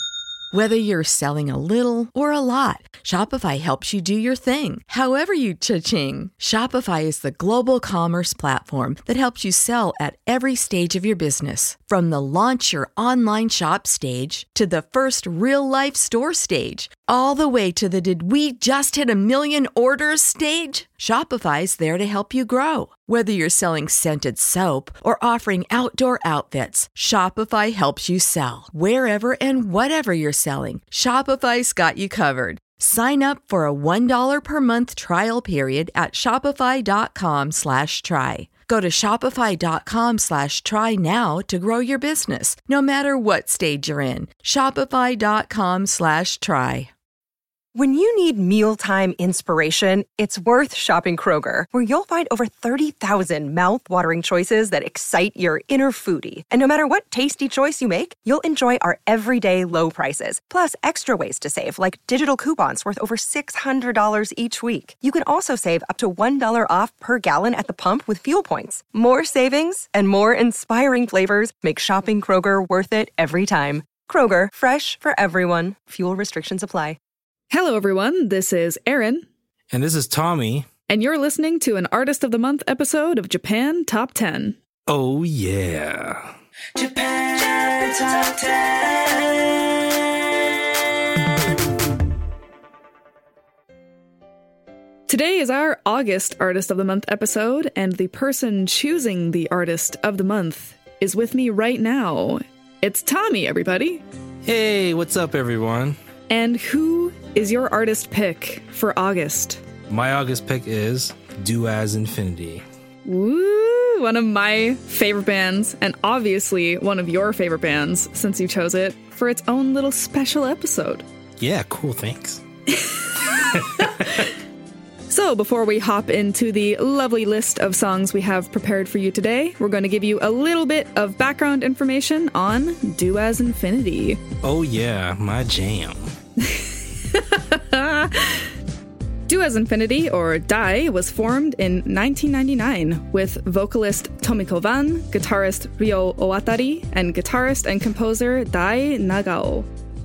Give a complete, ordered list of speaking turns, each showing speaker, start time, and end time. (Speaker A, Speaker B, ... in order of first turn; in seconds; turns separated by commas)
Speaker A: 0.5-46.9, Speaker B: 47.7-77.0, Speaker C: 77.5-79.2, Speaker D: 79.7-80.7, Speaker C: 80.9-84.6, Speaker D: 84.9-86.3, Speaker E: 86.7-89.9, Speaker C: 95.1-104.0, Speaker D: 104.4-106.0, Speaker C: 106.3-109.6, Speaker D: 109.9-112.6, Speaker C: 113.0-121.0, Speaker D: 121.4-122.4, Speaker C: 122.7-124.3, Speaker D: 123.3-124.3, Speaker C: 125.1-134.2, Speaker D: 134.4-136.1, Speaker C: 136.4-138.5, Speaker C: 139.3-149.7